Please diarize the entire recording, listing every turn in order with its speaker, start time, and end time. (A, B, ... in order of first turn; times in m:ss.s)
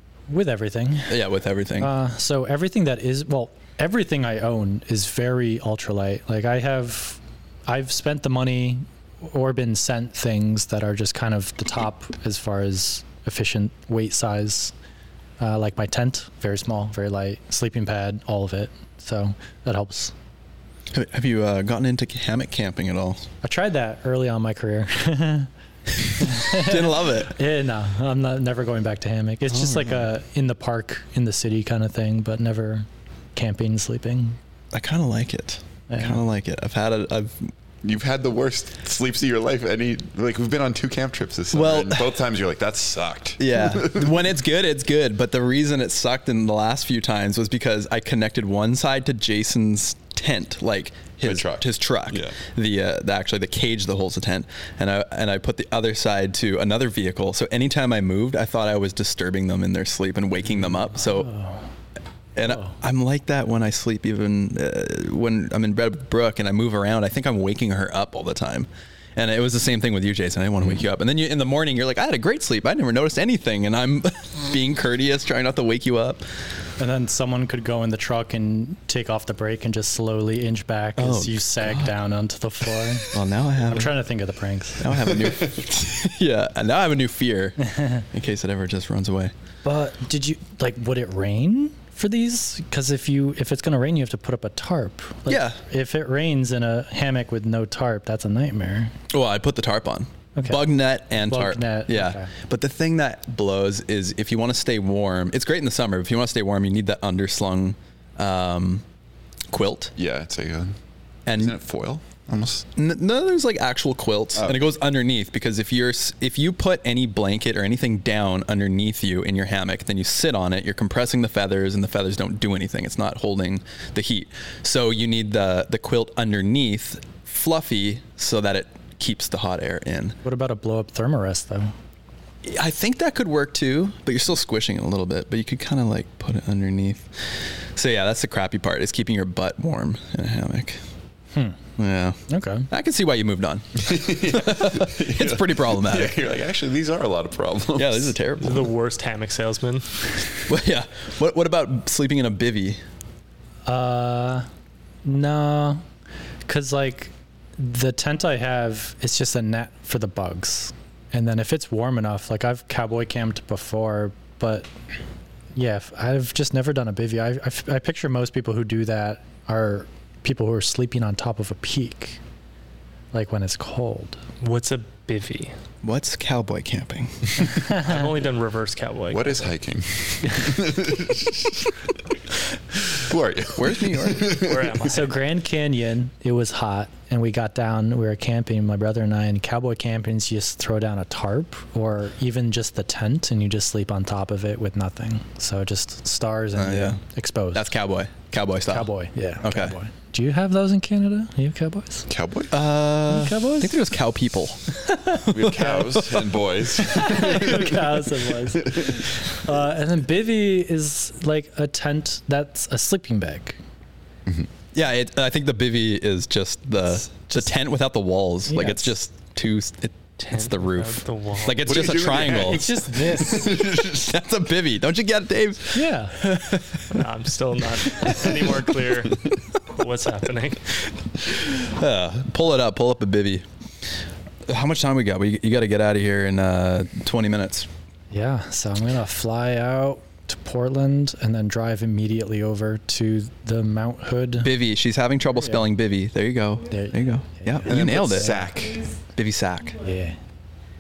0:00.3-0:01.1 A
0:01.1-0:01.9 B
0:01.8-0:14.7 A
0:15.4-0:20.1 A
0:20.9-0:23.2 B
0:23.4-0:25.5 A
0:26.2-0:34.4 A
0:26.2-0:27.3 B
0:29.5-0:30.1 B
0:34.7-0:37.5 B
0:35.9-0:36.2 A
0:37.8-0:44.3 C
0:41.5-0:42.1 B
0:43.4-1:01.4 B
0:51.2-0:52.4 C
1:01.2-1:01.6 A
1:02.4-1:16.2 B
1:02.5-1:02.7 A
1:16.8-1:25.0 A
1:21.0-1:21.9 B
1:23.1-1:24.0 B
1:24.8-1:29.3 B
1:29.6-1:38.9 A
1:35.3-1:35.6 B
1:39.1-1:48.8 B
1:40.4-1:42.3 A
1:49.5-1:49.9 B
1:50.0-1:50.8 C
1:51.3-1:51.6 B
1:51.3-1:52.7 C
1:52.8-2:10.2 B
1:54.4-1:54.7 C
2:10.2-2:11.7 A
2:12.4-2:17.1 B
2:17.8-2:20.8 B
2:21.8-2:22.2 B
2:22.3-2:22.7 A
2:22.7-2:26.2 B
2:23.8-2:28.2 C
2:27.8-2:28.7 B
2:28.4-2:29.8 D
2:30.5-2:32.8 B
2:33.7-2:34.5 A
2:35.0-2:35.8 A
2:36.5-2:44.7 A
2:45.6-2:52.2 A
2:53.1-2:54.2 A
2:54.4-2:55.5 D
2:55.8-2:57.6 B
2:57.6-2:58.1 A
2:57.7-2:59.5 D
2:59.1-3:01.7 C
3:02.7-3:04.9 C
3:03.6-3:04.4 B
3:04.4-3:05.2 D
3:04.9-3:17.7 A
3:16.6-3:17.0 B
3:17.5-3:18.9 B
3:18.7-3:22.1 A
3:19.4-3:19.7 B
3:22.1-3:22.6 C
3:22.5-3:26.3 B
3:23.1-3:23.9 A
3:24.9-3:25.2 A
3:25.3-3:27.9 C
3:26.9-3:33.6 A
3:28.5-3:29.0 C
3:34.7-3:47.0 B
3:38.5-3:39.0 A
3:40.2-3:41.9 D
3:41.6-3:44.1 C
3:42.4-3:43.5 A
3:45.7-3:46.2 A
3:46.9-3:50.6 D
3:47.9-3:48.8 B
3:51.2-3:53.4 B
3:54.5-3:57.7 B
3:58.1-4:04.5 A
4:04.4-4:08.5 B
4:06.7-4:07.8 A
4:07.6-4:09.0 C
4:09.2-4:09.8 B
4:09.8-4:10.2 A